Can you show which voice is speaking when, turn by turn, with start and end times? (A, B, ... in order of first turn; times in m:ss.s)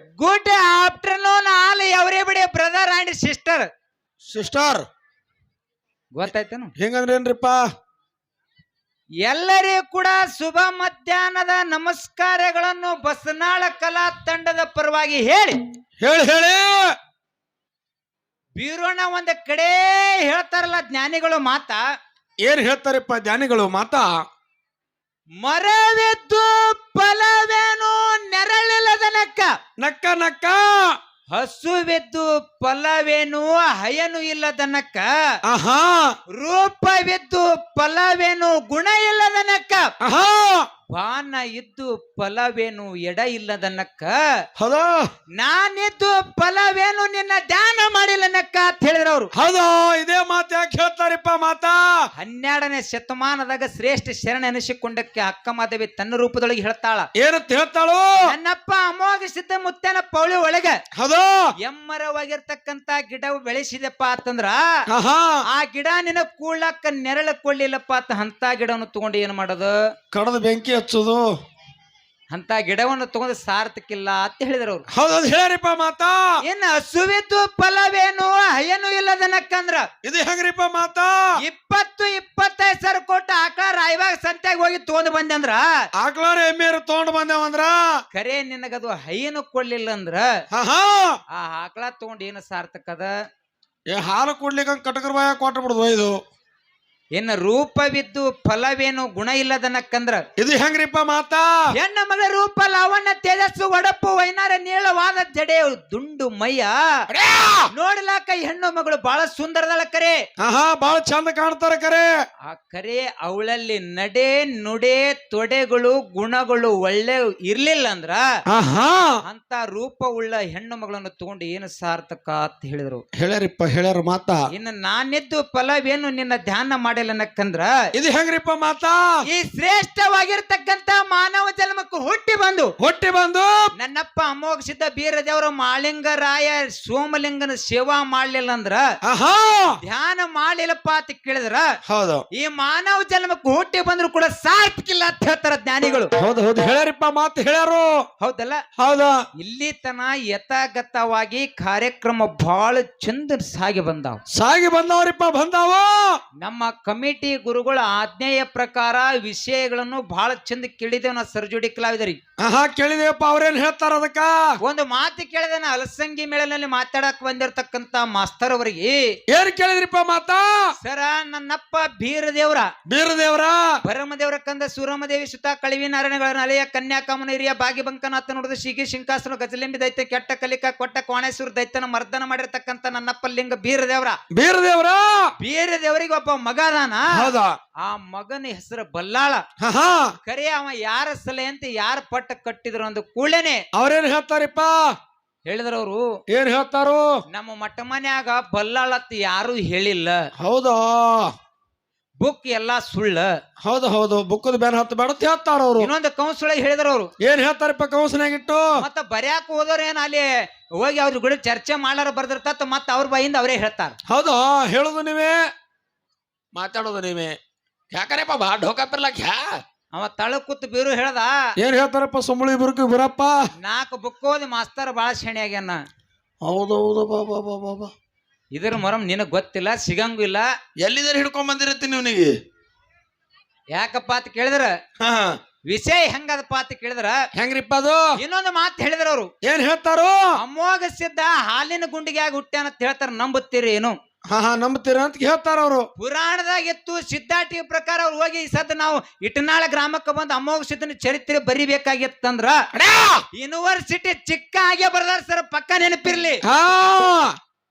0:00.2-0:03.7 A
0:04.2-0:04.8 B
0:06.1-0:06.7 A
0:06.8-0:07.6 B
0:09.2-0:15.6 A
0:16.0-0:16.9 B
0:18.5-0:21.8 A
0:22.4-0:24.1 B
0:25.4-0:29.5 A
0:29.8-0:31.0 B
0:31.3-0:35.1 A
0:35.4-0:36.1 B
0:36.3-0:39.9 A
0:40.0-0:40.7 B
0:40.9-0:44.2 A
0:44.6-0:45.0 B
0:45.4-0:49.3 A
0:49.3-0:52.0 B
0:52.2-0:57.1 A
0:57.2-0:58.1 B
0:58.2-1:00.8 A
1:00.9-1:01.5 B
1:01.6-1:04.6 A
1:04.9-1:05.4 B
1:05.5-1:09.8 A
1:10.1-1:11.3 B
1:12.3-1:14.8 A
1:14.9-1:16.3 B
1:16.4-1:19.9 A
1:20.0-1:21.2 B
1:21.4-1:25.6 A
1:26.0-1:28.0 B
1:28.1-1:30.3 A
1:30.5-1:31.2 B
1:31.3-1:33.1 A
1:33.9-1:36.2 B
1:37.1-1:40.2 A
1:40.4-1:41.5 B
1:41.7-1:46.7 A
1:47.1-1:47.7 B
1:47.7-1:50.2 A
1:50.4-1:52.1 B
1:52.5-1:58.2 A
1:58.5-1:59.2 B
1:59.2-2:03.0 A
2:03.2-2:04.4 B
2:04.5-2:07.7 A
2:07.9-2:09.1 B
2:09.3-2:12.7 A
2:12.8-2:13.5 B
2:13.8-2:18.8 A
2:19.0-2:19.8 B
2:19.8-2:21.6 A
2:21.8-2:22.2 B
2:22.3-2:26.1 A
2:26.2-2:28.0 B
2:28.2-2:28.6 A
2:28.8-2:29.2 B
2:29.4-2:34.2 A
2:34.3-2:36.2 B
2:36.4-2:42.2 A
2:42.4-2:44.4 B
2:44.6-2:49.0 A
2:49.3-2:50.6 B
2:50.8-2:52.7 A
2:52.9-2:53.7 B
2:53.8-3:04.2 A
3:04.3-3:05.3 B
3:05.4-3:07.3 A
3:07.1-3:07.6 B
3:07.8-3:09.4 A
3:09.6-3:10.2 B
3:10.2-3:13.6 A
3:13.7-3:14.8 B
3:15.4-3:16.0 A
3:16.3-3:17.1 B
3:17.3-3:20.3 A
3:20.4-3:21.3 B
3:22.2-3:23.3 A
3:23.6-3:25.9 B
3:25.8-3:27.1 A
3:27.2-3:28.8 B
3:28.8-3:34.0 A
3:34.1-3:35.4 B
3:36.5-3:37.4 B
3:37.9-3:39.6 B
3:39.9-3:41.3 A
3:41.6-3:43.4 B
3:43.6-3:45.8 A
3:46.4-3:47.9 B
3:48.5-3:50.5 A
3:50.8-3:52.3 B
3:53.7-3:54.7 A
3:55.0-3:55.3 B
3:55.7-3:57.2 A
3:57.3-3:58.0 B
3:58.2-3:59.3 A
3:59.4-4:00.2 B
4:00.3-4:04.0 A
4:04.3-4:05.9 B
4:06.0-4:12.6 A
4:12.7-4:13.2 B
4:13.3-4:16.4 A
4:16.4-4:17.3 B